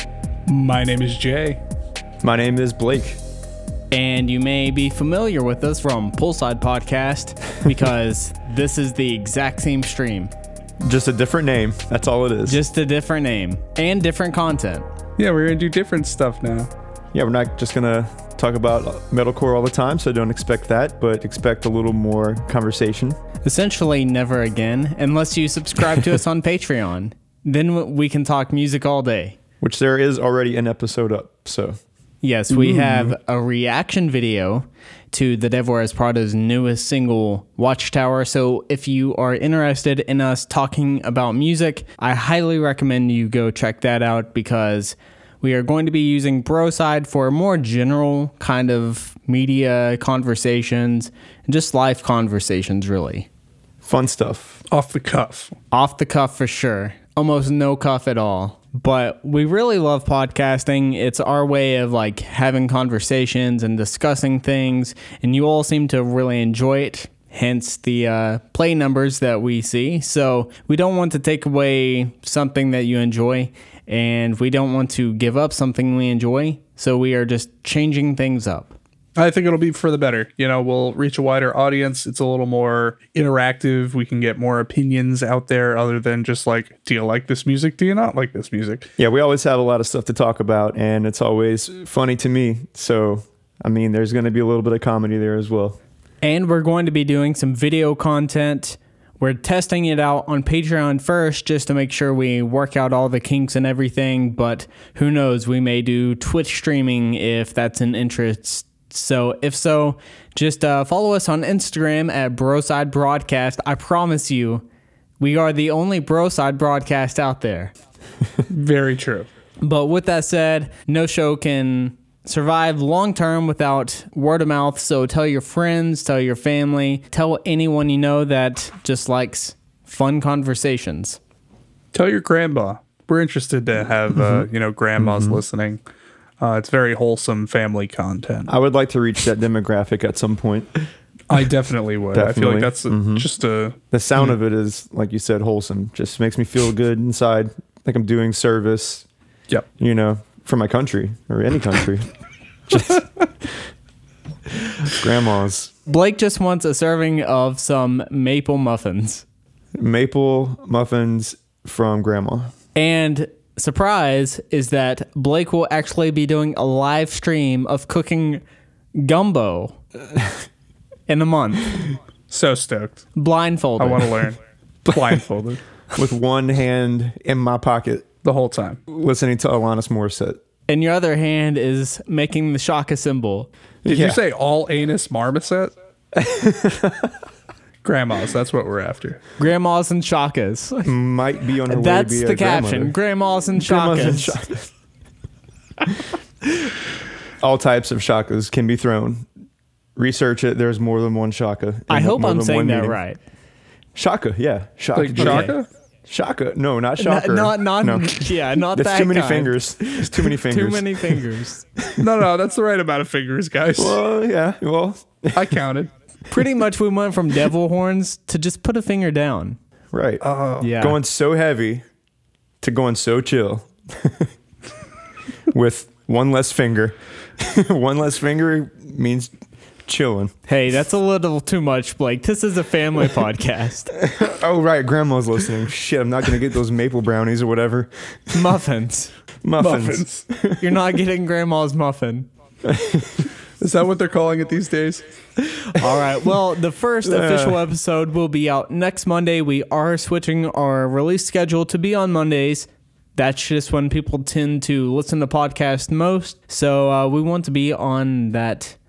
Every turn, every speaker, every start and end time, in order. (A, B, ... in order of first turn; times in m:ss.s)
0:00.5-0:01.6 A
0:02.2-0:03.2 B
0:03.9-0:10.3 C
0:10.8-0:12.6 B
0:12.5-0:14.9 C
0:15.2-0:16.7 A
0:17.1-0:23.2 B
0:23.4-0:29.4 C
0:29.6-0:31.8 B
0:32.2-0:53.3 C
0:32.5-0:33.1 A
0:53.8-0:54.6 B
0:54.7-0:55.5 A
0:55.7-1:18.8 C
1:19.2-1:28.9 A
1:29.0-1:35.8 B
1:36.2-1:54.6 C
1:55.2-1:57.7 C
1:58.5-1:59.3 A
1:59.6-2:11.2 C
2:11.9-2:15.8 A
2:14.2-2:14.5 B
2:15.0-2:15.4 B
2:16.4-2:18.5 A
2:18.5-2:20.7 B
2:21.3-2:23.8 A
2:22.1-2:23.3 B
2:23.9-2:29.1 B
2:29.8-2:32.1 B
2:32.7-2:33.1 B
2:34.9-2:35.7 B
2:35.9-2:39.2 C
2:39.8-2:42.5 B
2:42.8-2:48.4 C
2:49.0-2:49.8 C
2:51.1-2:51.9 C
2:52.3-2:53.0 A
2:53.2-2:54.2 C
2:53.8-2:55.6 A
2:54.9-2:55.2 B
2:55.9-2:58.1 B
2:58.2-2:58.8 A
2:58.9-3:00.4 B
3:00.7-3:03.5 C
3:03.8-3:04.2 B
3:03.9-3:05.7 A
3:06.2-3:07.1 B
3:07.8-3:09.2 A
3:09.4-3:10.9 C
3:10.8-3:13.0 B
3:11.7-3:14.4 C
3:13.6-3:14.7 B
3:17.4-3:19.3 B
3:20.0-3:23.0 B
3:21.9-3:23.2 C
3:24.0-3:25.6 B
3:25.0-3:25.7 A
3:25.2-3:25.5 C
3:26.1-3:31.2 B
3:27.0-3:31.6 C
3:32.0-3:34.0 A
3:33.8-3:35.5 B
3:35.4-3:35.9 A
3:36.3-3:39.6 C
3:39.9-3:40.2 B
3:40.2-3:40.7 A
3:40.6-3:41.0 C
3:40.8-3:41.8 B
3:42.6-3:44.3 B
3:45.5-3:49.3 B
3:49.9-3:50.3 B
3:50.5-3:53.9 C
3:54.0-3:58.3 B
3:58.3-3:59.1 C
3:59.4-4:00.6 B
3:59.6-4:00.2 A
4:00.6-4:02.3 C
4:02.6-4:03.3 B
4:03.6-4:05.0 A
4:05.4-4:18.8 C
4:07.0-4:07.6 B